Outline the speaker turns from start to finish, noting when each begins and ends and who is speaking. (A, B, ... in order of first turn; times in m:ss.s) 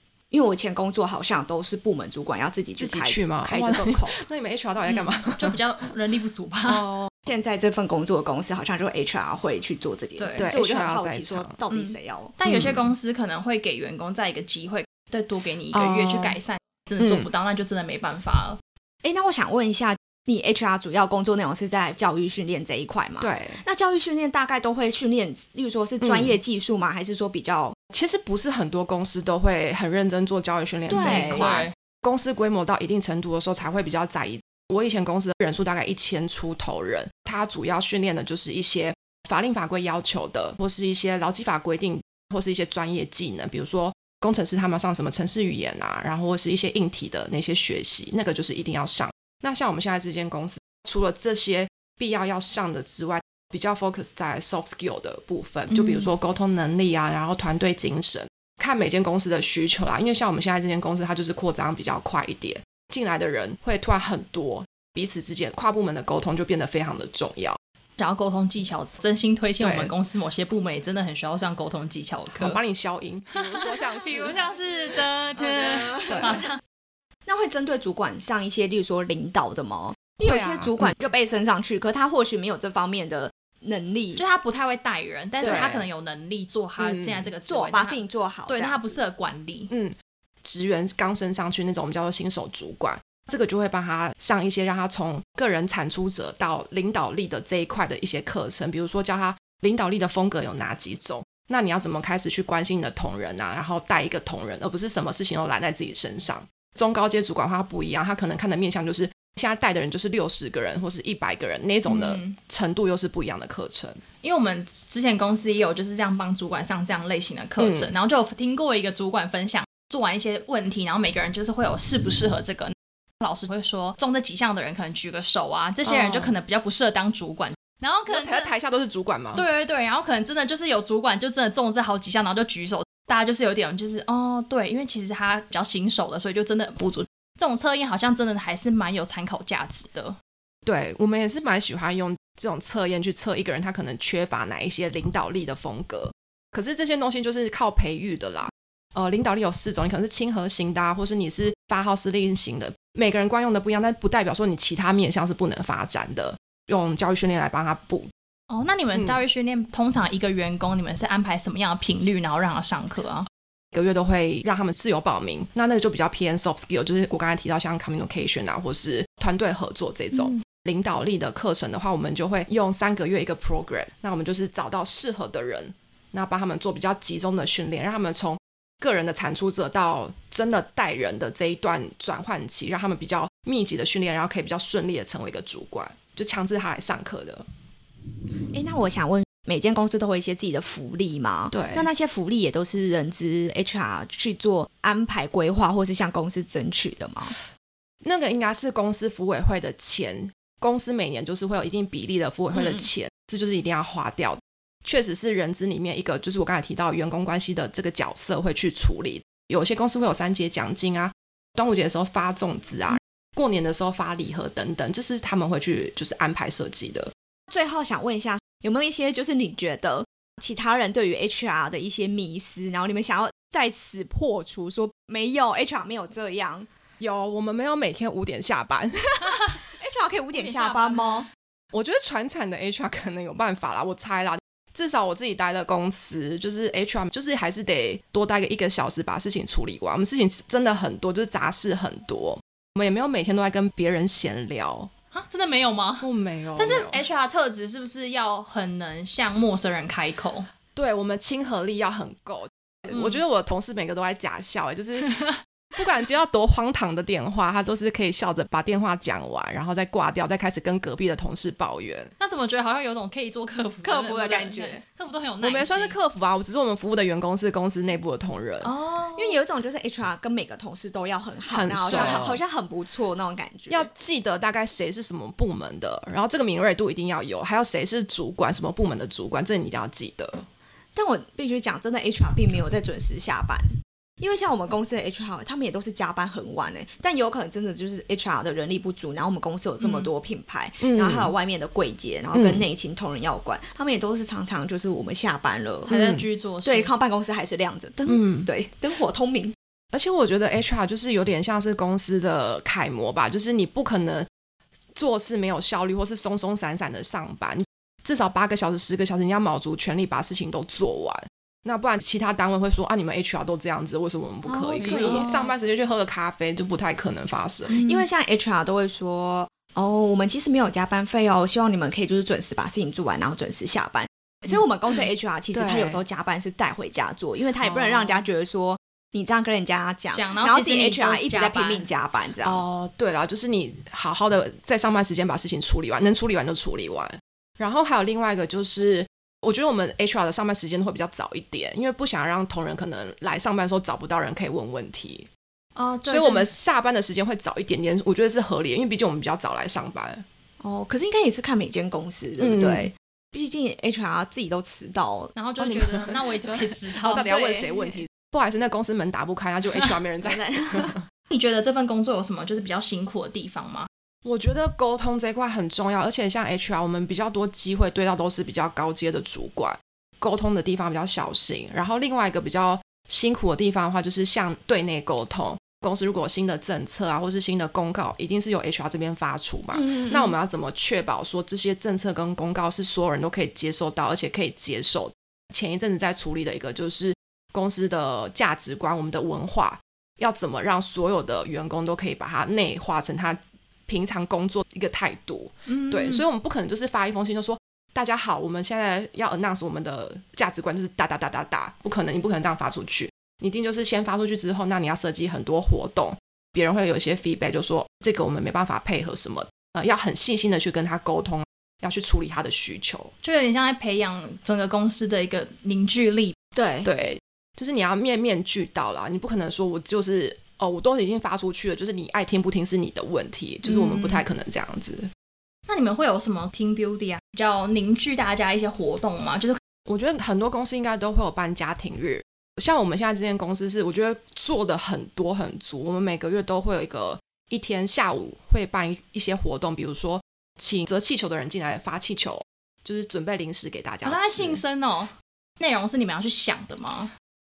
0:00.3-0:04.2 A
0:02.8-0:05.6 B
0:04.9-0:06.8 C
0:06.6-0:07.1 B
0:07.2-0:12.3 A
0:10.2-0:10.5 C
0:10.4-0:11.5 B
0:11.7-0:18.6 C
0:12.4-0:12.9 B
0:15.7-0:16.4 B
0:17.0-0:17.3 B
0:19.0-0:27.8 A
0:23.2-0:23.6 B
0:26.0-0:26.4 B
0:27.9-1:07.6 B
0:30.9-0:31.6 A
0:30.9-0:31.7 C
0:55.7-0:56.1 C
1:08.0-1:12.6 C
1:09.6-1:09.9 B
1:12.3-1:14.4 B
1:13.3-1:16.6 C
1:15.4-1:16.4 A
1:16.1-1:16.4 B
1:17.2-1:24.2 A
1:20.2-1:20.9 B
1:24.2-1:29.7 C
1:25.4-1:25.7 A
1:25.4-1:25.8 B
1:26.8-1:27.3 B
1:27.5-1:29.0 A
1:29.7-1:54.0 B
1:51.8-1:52.4 C
1:54.2-2:08.5 C
1:57.6-1:57.9 B
2:05.8-2:06.3 B
2:08.1-2:09.4 B
2:09.3-2:20.2 C
2:20.6-2:38.1 B
2:38.5-2:43.3 C
2:43.7-3:07.4 B
2:50.1-2:50.4 C
3:08.5-3:17.3 A
3:11.5-3:11.9 B
3:18.0-3:37.1 B
3:22.5-3:22.8 A
3:37.5-3:46.7 A
3:47.0-3:49.2 B
3:49.7-3:51.3 A
3:50.4-3:51.2 C
3:51.7-4:04.9 B
4:05.1-4:10.5 C
4:06.0-4:07.0 B
4:10.7-4:15.1 B
4:15.0-4:15.4 C
4:15.8-4:22.1 B
4:22.2-4:26.0 C
4:23.8-4:24.8 A
4:25.4-4:28.7 B
4:28.6-4:29.4 C
4:29.1-4:33.9 A
4:31.5-4:32.4 B
4:31.9-4:32.2 C
4:33.7-4:40.4 B
4:40.9-4:55.9 A
4:49.8-4:50.1 C
4:50.8-4:51.3 B
4:52.3-4:52.7 B
4:55.9-4:56.9 C
4:55.9-4:56.2 B
4:56.6-4:59.5 A
4:58.0-4:58.5 B
4:59.9-5:04.3 B
5:04.9-5:17.8 B
5:14.4-5:15.3 A
5:14.8-5:15.5 C
5:17.7-5:18.0 C
5:17.8-5:32.6 A
5:25.5-5:26.0 B
5:27.6-5:28.2 B
5:30.1-5:31.8 C
5:32.4-5:45.3 B
5:45.8-5:46.5 C
5:46.0-5:50.2 B
5:50.6-5:55.3 A
5:52.4-5:52.9 B
5:55.3-5:57.2 C
5:55.6-6:01.0 B
5:57.1-5:57.8 A
6:00.2-6:01.0 A
6:01.3-6:03.9 C
6:04.2-6:53.1 B
6:19.7-6:20.3 A
6:35.7-6:36.2 C
6:53.2-6:56.3 C
6:56.6-6:56.9 A
6:56.8-7:05.1 B
7:03.6-7:04.2 C
7:05.7-7:09.6 C
7:09.8-7:24.6 B
7:24.0-7:27.1 C